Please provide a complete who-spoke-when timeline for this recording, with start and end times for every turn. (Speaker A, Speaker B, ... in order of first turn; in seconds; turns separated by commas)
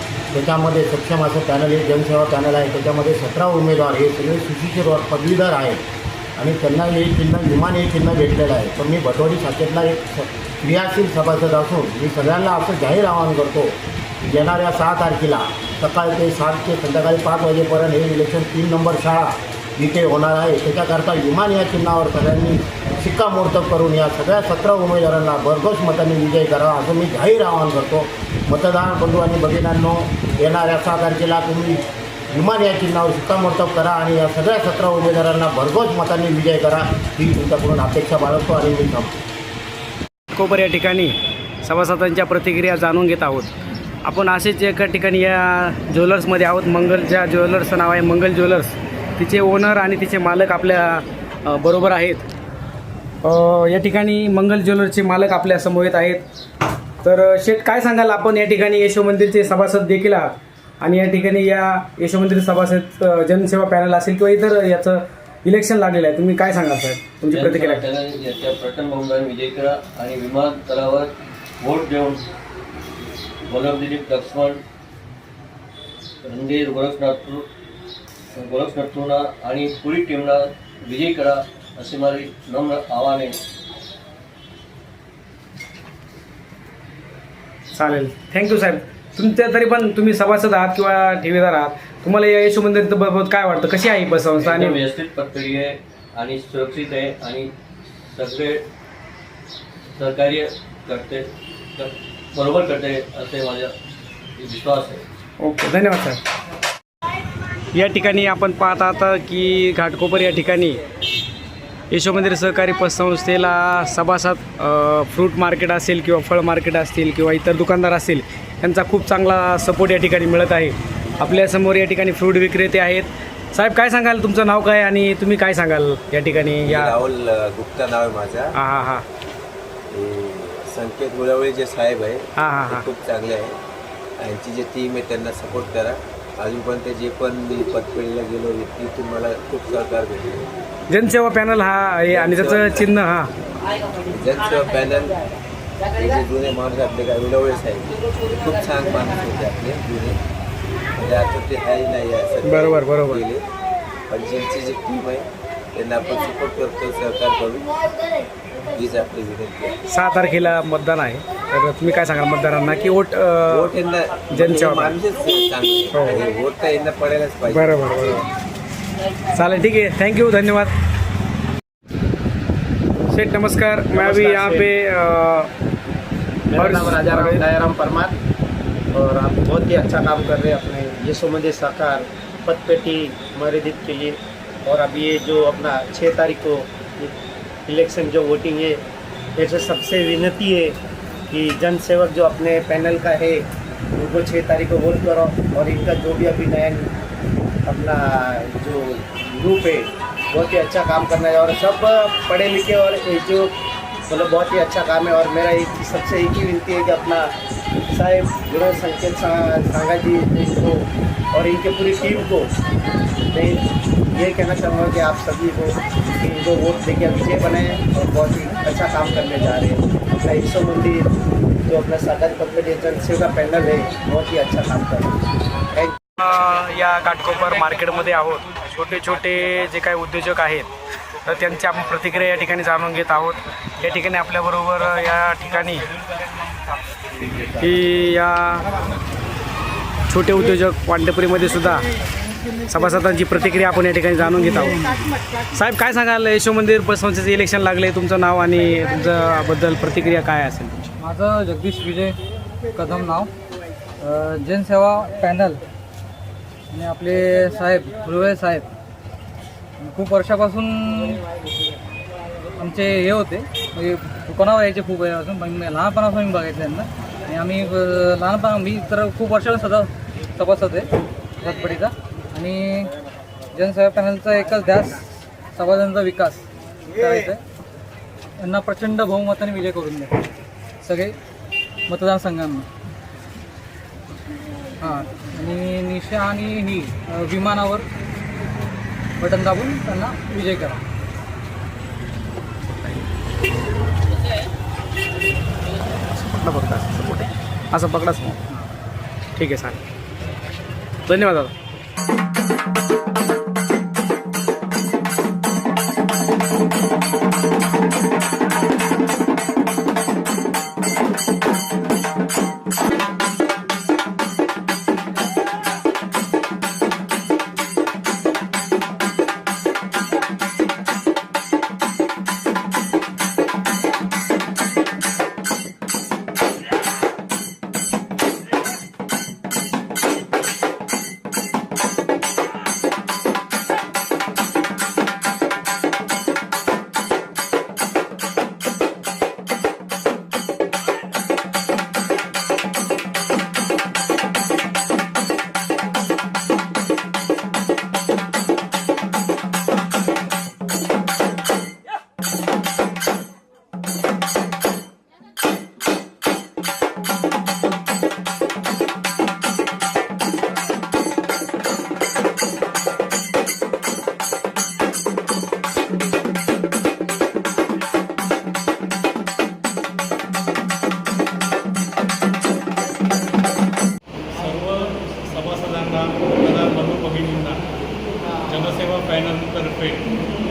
Speaker A: 0.3-5.8, Speaker A: 6.3-39.1, Speaker B: 40.3-43.5, Speaker B: 44.0-52.2, Speaker B: 53.2-56.2, Speaker B: 57.0-67.8, Speaker C: 67.3-72.2, Speaker C: 73.5-74.6, Speaker C: 76.2-77.5, Speaker C: 78.3-83.4, Speaker B: 87.7-94.8, Speaker C: 94.4-97.5, Speaker C: 98.1-98.6, Speaker C: 100.0-101.2, Speaker C: 101.8-103.7, Speaker C: 104.4-105.0, Speaker B: 105.4-106.2, Speaker B: 107.7-110.8, Speaker B: 111.9-127.0, Speaker D: 126.6-128.5, Speaker B: 128.5-129.0, Speaker D: 129.9-133.6, Speaker B: 132.4-132.9, Speaker D: 134.2-140.5, Speaker B: 140.9-143.3, Speaker D: 142.1-143.0, Speaker D: 144.0-145.3, Speaker D: 145.9-150.2, Speaker D: 150.9-153.4, Speaker B: 152.4-153.2, Speaker D: 154.1-157.8, Speaker D: 158.7-159.8, Speaker B: 159.9-163.7, Speaker D: 163.5-168.2, Speaker B: 164.3-164.9, Speaker B: 165.9-166.2, Speaker B: 167.5-168.2, Speaker B: 169.3-170.7, Speaker B: 173.1-175.5, Speaker E: 173.9-174.7, Speaker E: 176.5-178.1, Speaker B: 176.5-177.4, Speaker E: 178.9-187.1, Speaker E: 187.7-188.8, Speaker E: 189.4-190.7, Speaker E: 191.3-193.4, Speaker E: 193.9-196.9, Speaker E: 197.7-203.5, Speaker E: 204.1-207.3, Speaker E: 207.9-212.5, Speaker E: 213.3-213.6, Speaker E: 214.1-221.1, Speaker E: 221.7-225.9, Speaker B: 226.2-230.7, Speaker B: 231.2-235.9, Speaker B: 237.5-238.7, Speaker B: 240.1-241.8, Speaker B: 242.7-245.0, Speaker B: 245.5-250.9, Speaker F: 251.0-252.2, Speaker F: 252.7-253.3, Speaker F: 254.0-255.6, Speaker F: 256.7-258.7, Speaker F: 259.8-261.2, Speaker F: 262.6-272.9, Speaker F: 273.5-277.4, Speaker F: 278.4-280.1, Speaker F: 280.8-281.1, Speaker F: 281.9-282.7, Speaker F: 284.8-287.9, Speaker F: 289.2-290.8, Speaker B: 296.1-298.4, Speaker B: 299.3-299.8, Speaker B: 301.1-301.5, Speaker G: 374.3-377.7, Speaker G: 378.4-380.1